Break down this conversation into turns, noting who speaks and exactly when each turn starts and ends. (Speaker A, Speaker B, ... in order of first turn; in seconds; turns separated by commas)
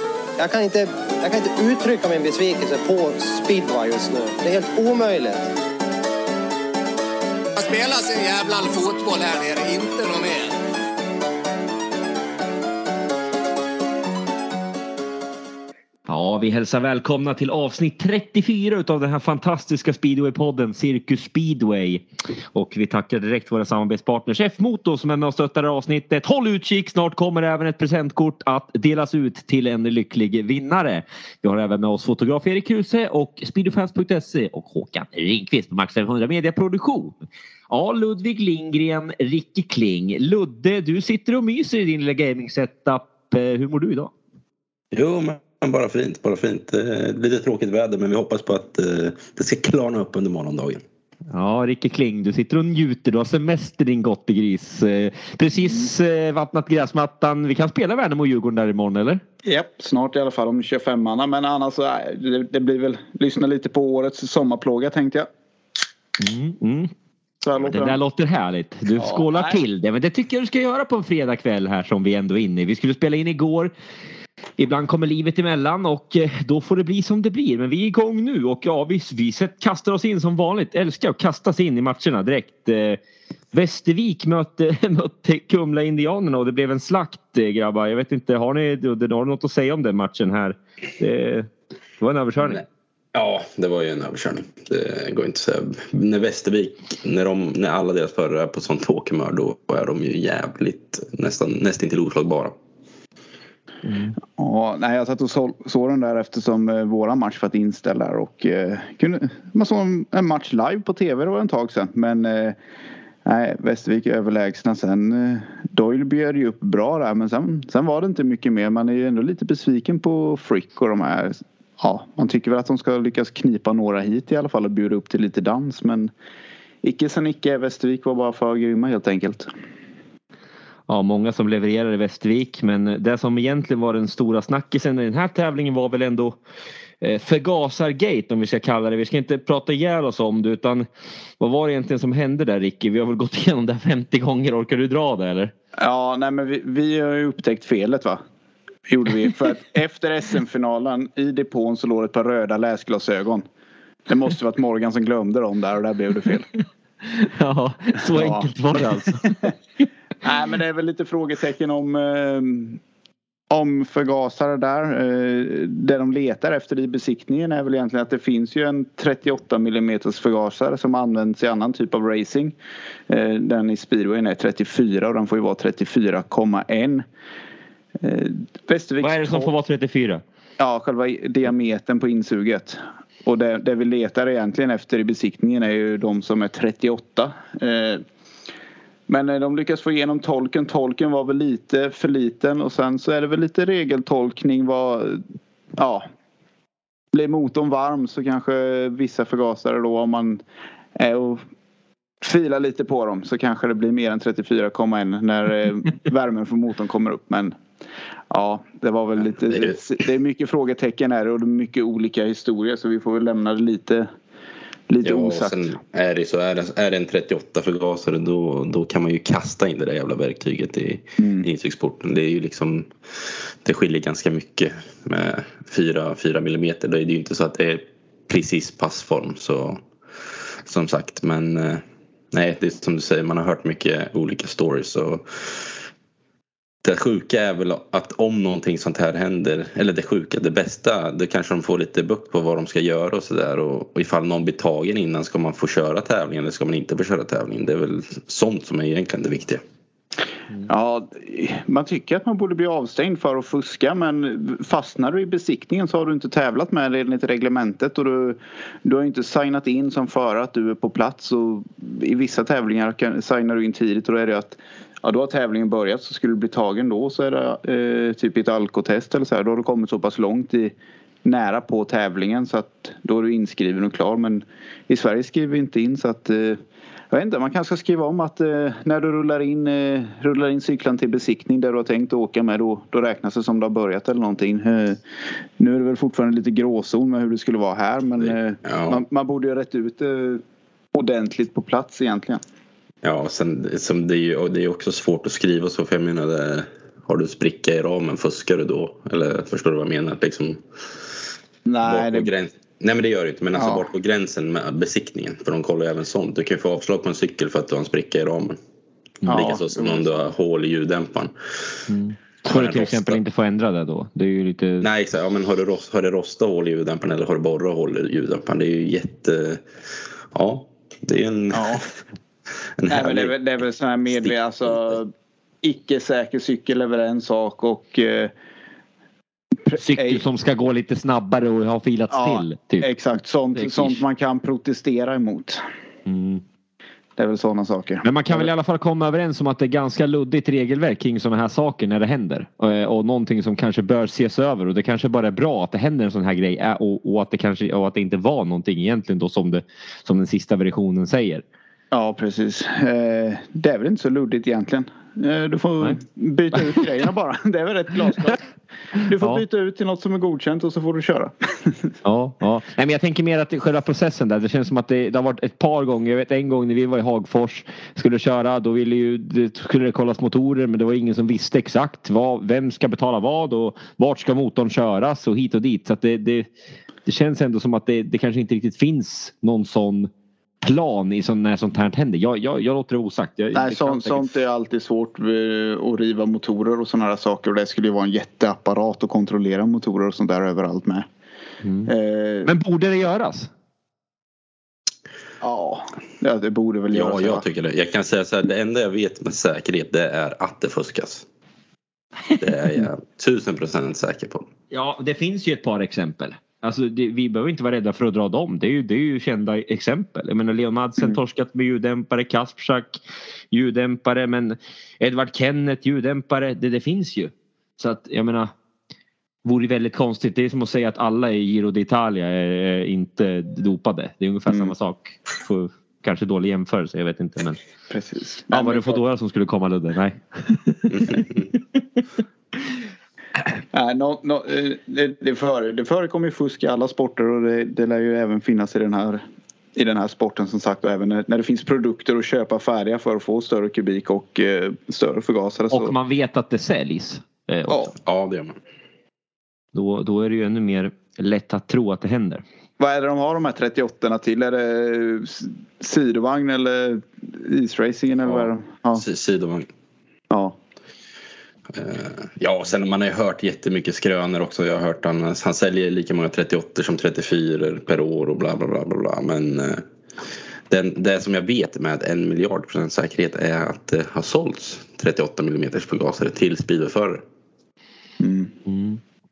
Speaker A: 0.4-5.5, Speaker B: 7.5-10.5, Speaker C: 16.1-37.2, Speaker C: 37.7-44.1, Speaker D: 44.9-50.8, Speaker C: 51.3-59.2, Speaker E: 59.4-65.3, Speaker C: 66.2-66.9, Speaker E: 67.4-68.0, Speaker C: 67.6-73.7, Speaker E: 69.0-69.6, Speaker C: 74.6-83.0, Speaker C: 83.5-92.6, Speaker D: 93.1-102.5, Speaker C: 103.8-104.1, Speaker E: 104.3-112.6, Speaker E: 113.2-126.1, Speaker E: 126.8-129.5, Speaker C: 130.9-136.4, Speaker C: 137.0-140.9, Speaker C: 141.4-145.5, Speaker E: 145.8-148.2, Speaker E: 148.9-153.4, Speaker E: 154.1-156.5, Speaker C: 157.1-159.5, Speaker E: 158.1-158.5, Speaker E: 160.2-162.8, Speaker E: 163.5-172.5, Speaker E: 173.1-177.0, Speaker E: 178.0-179.5, Speaker C: 179.0-180.2, Speaker E: 180.6-188.0, Speaker E: 189.1-195.2, Speaker E: 195.8-196.1, Speaker E: 197.1-200.4, Speaker E: 200.9-201.4, Speaker E: 202.2-207.6, Speaker E: 208.3-214.1, Speaker D: 209.5-209.8, Speaker E: 214.9-215.6, Speaker D: 215.0-222.9, Speaker E: 221.2-221.5, Speaker D: 223.6-229.8, Speaker D: 230.6-235.8, Speaker D: 236.8-249.6, Speaker E: 250.7-276.6, Speaker E: 277.1-285.0, Speaker E: 285.6-290.4, Speaker D: 288.6-289.0, Speaker E: 290.9-292.4, Speaker D: 293.0-300.6, Speaker E: 301.6-302.3, Speaker D: 301.8-308.6, Speaker E: 303.5-303.8, Speaker E: 309.2-310.1, Speaker D: 309.2-311.3, Speaker C: 311.9-314.9, Speaker D: 312.5-313.2, Speaker D: 314.8-319.6, Speaker D: 320.3-321.9, Speaker E: 321.5-321.8, Speaker D: 322.8-323.4, Speaker E: 322.9-325.1, Speaker E: 325.6-328.3, Speaker E: 329.6-330.2, Speaker C: 329.8-332.9, Speaker E: 332.1-335.6, Speaker C: 333.5-334.0, Speaker C: 336.1-336.4, Speaker E: 337.2-338.5, Speaker C: 338.0-351.4, Speaker E: 351.9-358.4, Speaker C: 356.5-356.8, Speaker E: 359.0-361.9, Speaker C: 359.2-359.4, Speaker C: 362.0-376.5, Speaker C: 377.0-380.1, Speaker C: 380.6-384.2, Speaker E: 383.5-391.1, Speaker C: 391.6-391.9, Speaker E: 391.8-392.5, Speaker C: 392.4-393.5, Speaker E: 395.4-397.4, Speaker D: 396.9-401.2, Speaker D: 402.4-404.5, Speaker C: 404.7-413.0, Speaker C: 413.5-418.5, Speaker C: 419.4-427.6, Speaker E: 424.5-424.7, Speaker E: 427.9-429.0, Speaker C: 428.5-431.3, Speaker E: 433.7-439.2, Speaker E: 439.7-445.9, Speaker C: 445.7-447.9, Speaker D: 448.0-448.6, Speaker C: 449.7-452.4, Speaker E: 452.8-459.0, Speaker D: 458.3-459.7, Speaker E: 460.3-460.6, Speaker D: 461.7-469.8, Speaker D: 470.7-477.2, Speaker E: 478.2-478.5, Speaker C: 478.6-479.0